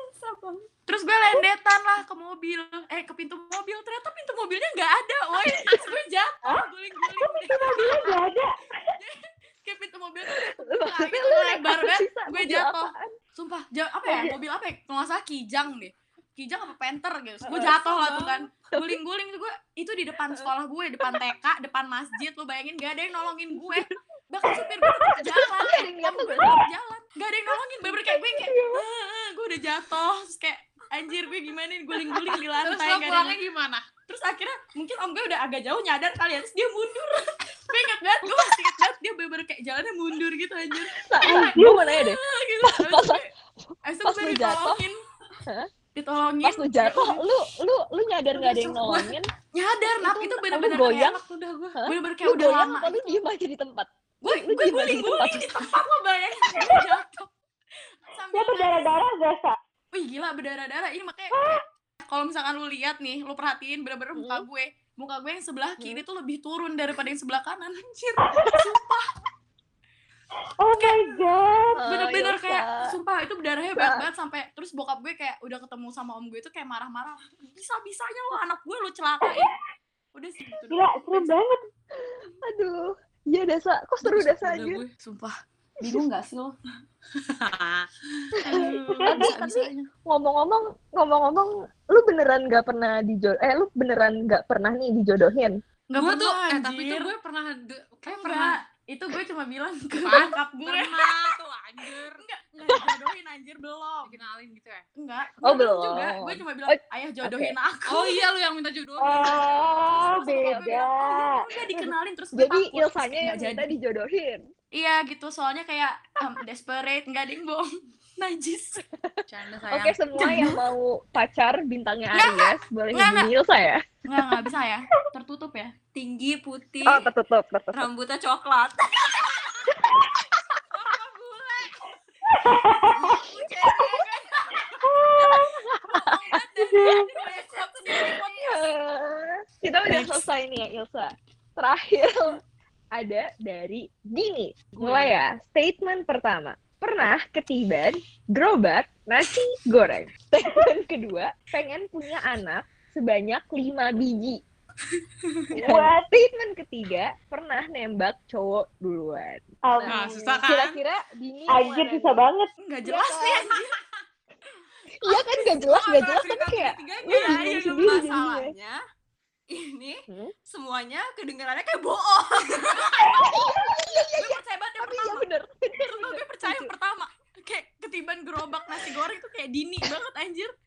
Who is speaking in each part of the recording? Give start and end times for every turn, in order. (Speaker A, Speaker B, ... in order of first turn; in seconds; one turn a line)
Speaker A: 0.1-0.7
Speaker B: 0.8-8.2
Speaker C: 5.4-5.8
Speaker D: 7.2-8.9
Speaker B: 8.9-33.4
Speaker C: 10.3-13.1
Speaker C: 14.1-14.3
Speaker C: 17.4-19.0
Speaker C: 25.1-26.7
Speaker C: 27.8-28.8
Speaker E: 32.6-33.8
Speaker B: 34.1-43.3
Speaker C: 38.2-38.5
Speaker C: 40.9-43.3
Speaker D: 41.2-41.9
Speaker B: 43.9-45.0
Speaker C: 44.0-44.8
Speaker B: 45.9-47.3
Speaker C: 46.4-49.3
Speaker B: 48.3-51.1
Speaker C: 50.0-51.2
Speaker E: 51.0-51.8
Speaker C: 51.7-55.7
Speaker B: 51.9-53.1
Speaker B: 54.2-57.3
Speaker B: 58.1-59.0
Speaker D: 58.3-59.6
Speaker B: 59.9-69.1
Speaker D: 61.3-61.6
Speaker C: 64.1-64.5
Speaker D: 68.2-68.7
Speaker D: 70.6-71.7
Speaker B: 70.7-71.1
Speaker C: 71.7-72.9
Speaker B: 71.8-79.5
Speaker C: 73.7-74.0
Speaker B: 80.1-81.4
Speaker D: 80.7-81.6
Speaker C: 81.9-84.8
Speaker E: 84.0-84.9
Speaker B: 85.0-86.5
Speaker E: 87.2-88.6
Speaker C: 88.4-95.5
Speaker B: 88.5-89.9
Speaker D: 89.0-89.2
Speaker B: 95.9-97.1
Speaker E: 96.0-98.6
Speaker B: 98.1-101.2
Speaker E: 100.0-102.2
Speaker B: 102.1-104.1
Speaker E: 104.0-104.8
Speaker B: 105.0-108.1
Speaker C: 105.4-107.5
Speaker E: 107.9-109.8
Speaker D: 109.0-111.4
Speaker B: 109.8-113.7
Speaker C: 110.0-110.8
Speaker C: 112.3-114.4
Speaker B: 114.7-118.8
Speaker C: 119.0-123.8
Speaker E: 119.3-120.0
Speaker B: 120.2-120.6
Speaker B: 122.1-123.3
Speaker B: 124.0-125.7
Speaker A: 125.9-127.1
Speaker C: 126.8-127.9
Speaker A: 127.7-129.7
Speaker B: 130.7-131.7
Speaker D: 132.3-133.2
Speaker B: 132.6-138.7
Speaker D: 134.8-135.6
Speaker C: 135.3-136.3
Speaker D: 136.7-137.1
Speaker A: 137.3-137.8
Speaker C: 137.9-142.4
Speaker B: 139.9-140.2
Speaker C: 142.9-154.4
Speaker E: 144.7-145.2
Speaker C: 155.5-162.2
Speaker D: 155.5-156.1
Speaker D: 159.7-160.4
Speaker E: 159.9-160.8
Speaker D: 161.5-162.5
Speaker B: 162.6-163.8
Speaker C: 162.9-163.1
Speaker E: 165.0-168.0
Speaker C: 165.0-168.5
Speaker A: 167.1-168.8
Speaker A: 169.5-173.1
Speaker B: 172.9-173.3
Speaker C: 173.1-176.7
Speaker B: 174.1-175.2
Speaker B: 175.8-180.5